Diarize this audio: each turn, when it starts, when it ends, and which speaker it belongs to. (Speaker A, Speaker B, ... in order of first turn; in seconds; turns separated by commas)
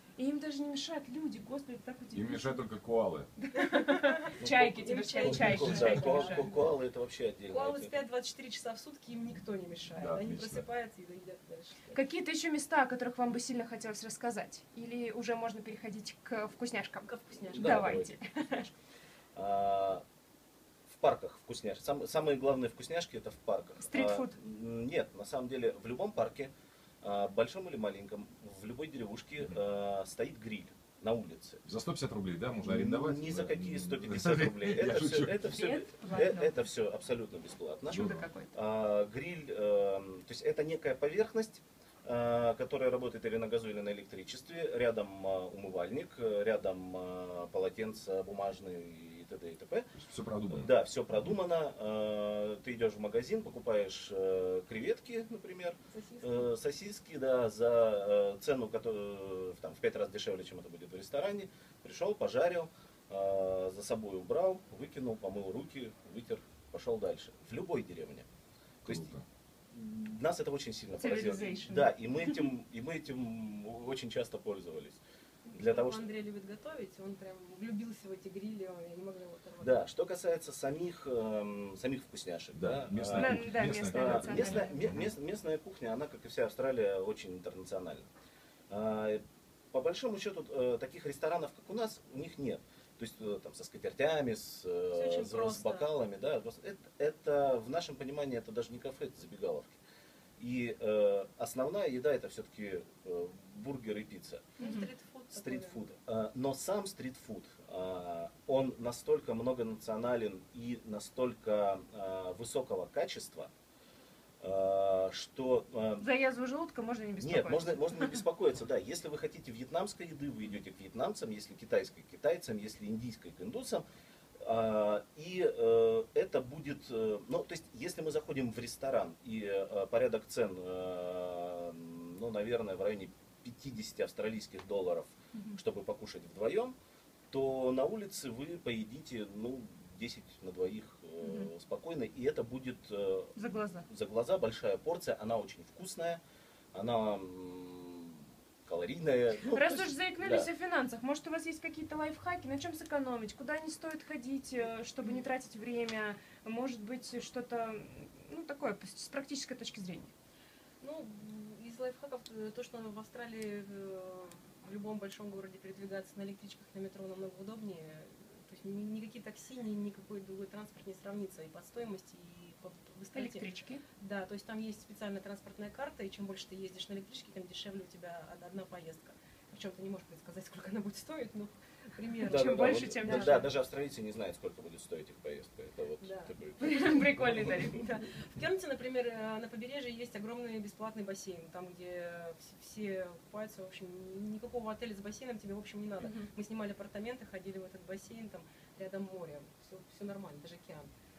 Speaker A: 0.2-2.6, Speaker B: 2.1-3.3, Speaker A: 3.4-6.5, Speaker C: 3.6-6.7, Speaker D: 4.4-8.0, Speaker C: 7.5-12.0, Speaker B: 9.9-10.7, Speaker A: 11.9-18.7, Speaker C: 17.0-18.1, Speaker D: 17.5-18.6, Speaker D: 19.4-20.0, Speaker D: 20.9-26.5, Speaker A: 23.8-24.4, Speaker D: 27.0-31.6, Speaker B: 31.6-35.5, Speaker D: 32.6-49.9, Speaker A: 35.4-36.6, Speaker A: 37.9-38.6, Speaker B: 37.9-38.2, Speaker B: 50.0-50.7, Speaker D: 50.5-68.3, Speaker C: 55.9-56.5, Speaker D: 68.8-69.1, Speaker B: 68.9-69.2, Speaker D: 69.7-75.0, Speaker A: 70.9-72.5, Speaker C: 75.5-79.9, Speaker D: 75.5-76.1, Speaker D: 79.6-88.1, Speaker B: 82.5-85.1, Speaker A: 83.1-84.8, Speaker D: 88.7-99.8, Speaker C: 94.9-95.9, Speaker D: 100.4-104.5, Speaker A: 104.6-104.9, Speaker C: 104.6-105.8, Speaker D: 105.3-113.5, Speaker D: 114.4-116.1, Speaker A: 116.0-118.2, Speaker D: 117.2-123.8, Speaker D: 124.4-136.8, Speaker D: 137.3-143.3, Speaker A: 141.2-141.5, Speaker A: 143.4-143.9, Speaker D: 143.9-146.2, Speaker D: 146.7-150.5, Speaker A: 149.4-160.1, Speaker C: 160.8-183.5, Speaker A: 173.1-173.8, Speaker A: 182.2-183.5, Speaker D: 182.2-187.8, Speaker C: 186.0-200.9, Speaker A: 186.6-187.9, Speaker A: 196.0-196.3